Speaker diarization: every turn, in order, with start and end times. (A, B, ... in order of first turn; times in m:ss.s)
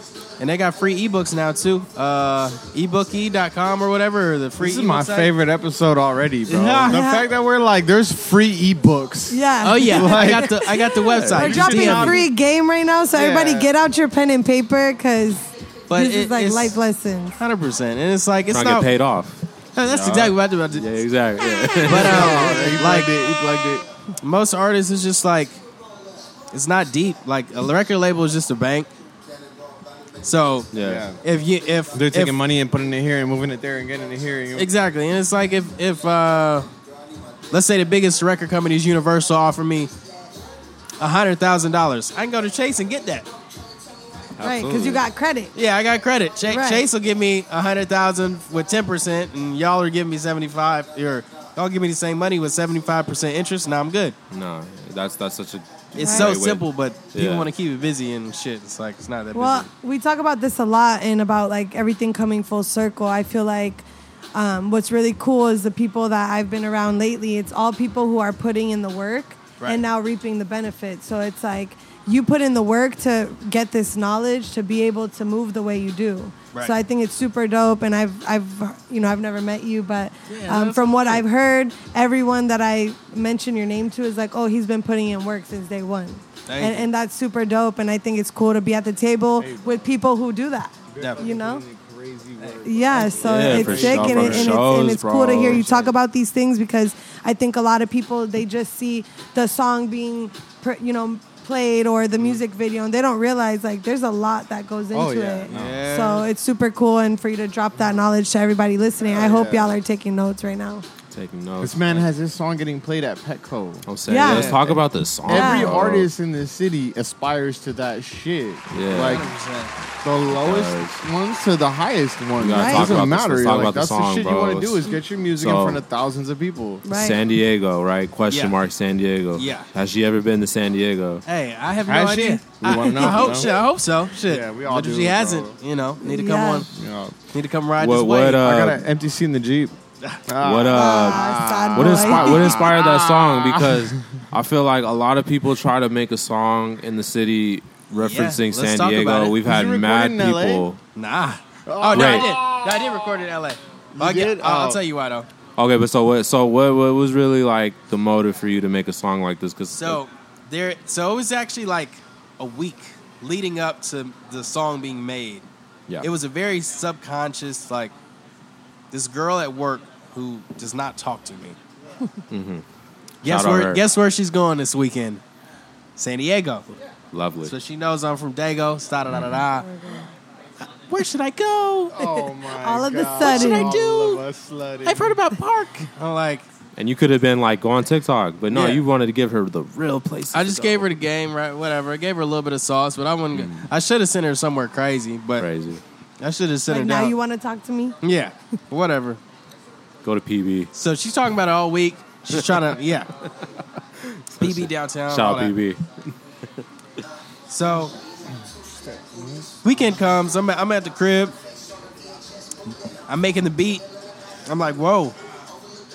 0:00.4-0:05.3 A
0:04.6-0:10.6 B
0:06.5-0:07.0 A
0:06.9-0:07.2 C
0:09.3-0:17.4 C
0:09.6-0:12.2 A
0:11.2-0:12.3 B
0:13.1-0:13.7 B
0:15.9-0:16.8 A
0:17.4-0:18.9 A
0:18.5-0:22.4 D
0:19.8-0:20.9 A
0:21.8-0:23.1 A
0:21.9-0:23.8 B
0:24.2-0:25.6 A
0:26.5-0:28.9 A
0:30.2-0:32.4 A
0:30.7-0:31.0 D
0:30.8-0:31.2 B
0:31.9-0:34.7 B
0:34.6-0:36.7 A
0:37.5-0:39.9 A
0:41.0-0:43.3 A
0:44.4-0:45.0 D
0:44.4-0:45.5 C
0:45.6-0:54.2 A
0:46.5-0:46.9 C
0:54.3-0:56.6 D
0:56.0-0:59.7 A
0:56.0-0:56.3 C
0:57.1-0:57.5 D
0:59.3-1:31.6 C
1:20.3-1:21.2 A
1:26.5-1:26.9 A
1:29.4-1:29.8 B
1:30.9-1:34.5 B
1:32.4-1:34.3 A
1:32.6-1:50.8 C
1:33.2-1:35.8 D
1:35.6-1:35.9 B
1:44.9-1:45.8 B
1:45.5-1:46.3 A
1:49.0-1:49.7 B
1:51.1-1:52.1 D
1:51.6-1:59.3 B
1:53.9-1:56.1 D
1:54.1-1:54.5 C
1:55.3-1:55.7 C
1:58.7-1:59.3 D
1:58.9-1:59.7 A
2:00.0-2:06.8 B
2:00.3-2:01.0 D
2:02.4-2:05.8 D
2:02.6-2:03.0 C
2:06.8-2:07.2 C
2:06.9-2:11.2 D
2:08.3-2:08.6 A
2:09.4-2:09.7 A
2:11.3-2:16.7 A
2:11.9-2:13.6 B
2:12.7-2:13.4 C
2:14.3-2:15.6 B
2:16.0-2:16.7 C
2:16.7-2:17.2 B
2:17.3-2:18.5 A
2:17.8-2:18.8 D
2:18.4-2:19.8 B
2:20.3-2:24.0 B
2:20.4-2:30.8 D
2:20.7-2:22.6 C
2:28.0-2:29.4 A
2:29.4-2:30.7 B
2:31.0-2:35.3 A
2:31.7-2:33.0 B
2:31.9-2:32.3 D
2:34.0-2:34.8 B
2:35.6-2:40.0 D
2:39.8-2:45.5 A
2:46.0-2:47.9 A
2:48.9-2:51.6 A
2:52.3-2:52.6 D
2:53.2-2:55.2 A
2:53.2-2:53.8 D
2:56.0-2:56.7 A
2:57.1-2:57.5 D
2:57.4-2:59.7 A
2:59.6-3:00.1 C
3:00.6-3:01.9 A
3:01.9-3:05.2 B
3:02.0-3:03.7 C
3:03.2-3:04.2 A
3:04.8-3:06.5 A
3:06.8-3:10.9 D
3:08.5-3:08.8 A
3:10.3-3:15.5 A
3:13.3-3:13.7 D
3:15.4-3:15.8 D
3:16.2-3:17.2 A
3:16.7-3:18.0 C
3:18.0-3:19.2 A
3:20.0-3:20.7 D
3:20.7-3:23.1 A
3:24.1-3:26.1 D
3:24.4-3:25.6 A
3:27.5-3:27.9 A
3:28.8-3:29.5 B
3:29.6-3:31.4 A
3:33.1-3:33.8 A
3:34.5-3:35.2 A